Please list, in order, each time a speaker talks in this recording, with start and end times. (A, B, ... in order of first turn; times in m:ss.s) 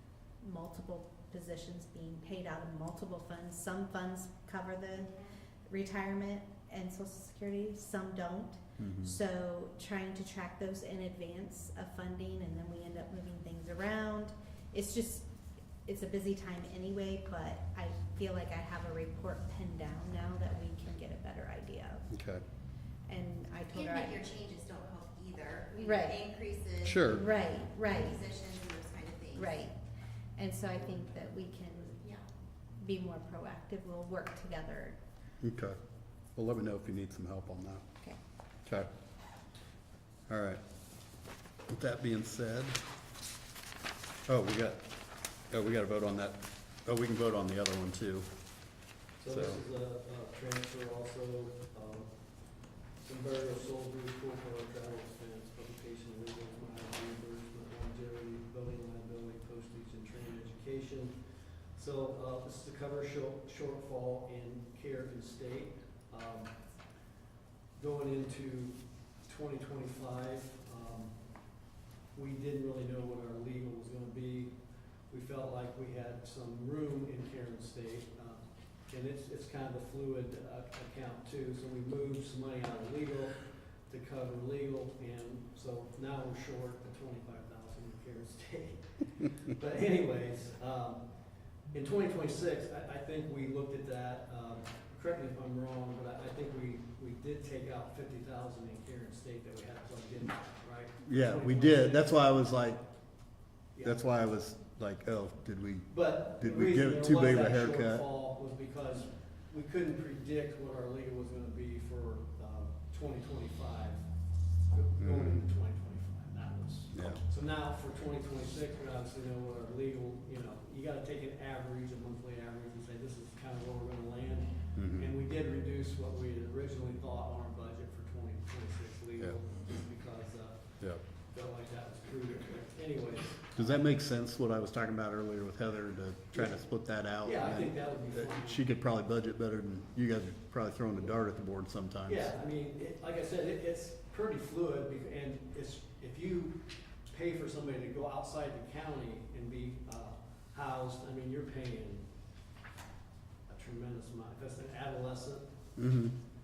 0:00.4-0:05.1 A
0:05.7-0:15.3 A
0:08.8-0:09.2 B
0:15.8-0:22.1 A
0:22.1-0:22.4 B
0:23.1-0:24.2 A
0:23.7-0:27.0 C
0:25.8-0:26.2 A
0:26.8-0:27.2 B
0:27.0-0:28.2 A
0:27.9-0:29.5 C
0:29.3-0:29.8 A
0:30.4-0:32.0 A
0:32.8-0:35.0 A
0:35.4-0:35.8 B
0:36.3-0:37.8 B
0:38.6-0:38.9 B
0:40.3-0:40.6 B
0:41.7-0:42.8 B
0:44.3-0:44.8 B
0:45.5-0:48.7 B
0:49.2-1:06.6 D
0:49.3-0:49.6 B
1:07.8-1:11.6 D
1:12.1-1:42.2 D
1:41.0-1:42.8 B
1:43.8-1:48.1 B
1:45.9-1:54.1 D
1:54.7-2:13.6 D
1:55.0-1:55.4 B
1:56.9-1:57.2 B
2:04.7-2:05.1 B
2:13.5-2:22.3 B
2:17.2-2:18.6 D
2:22.1-2:32.1 D
2:33.5-2:35.5 D
2:35.8-2:36.2 B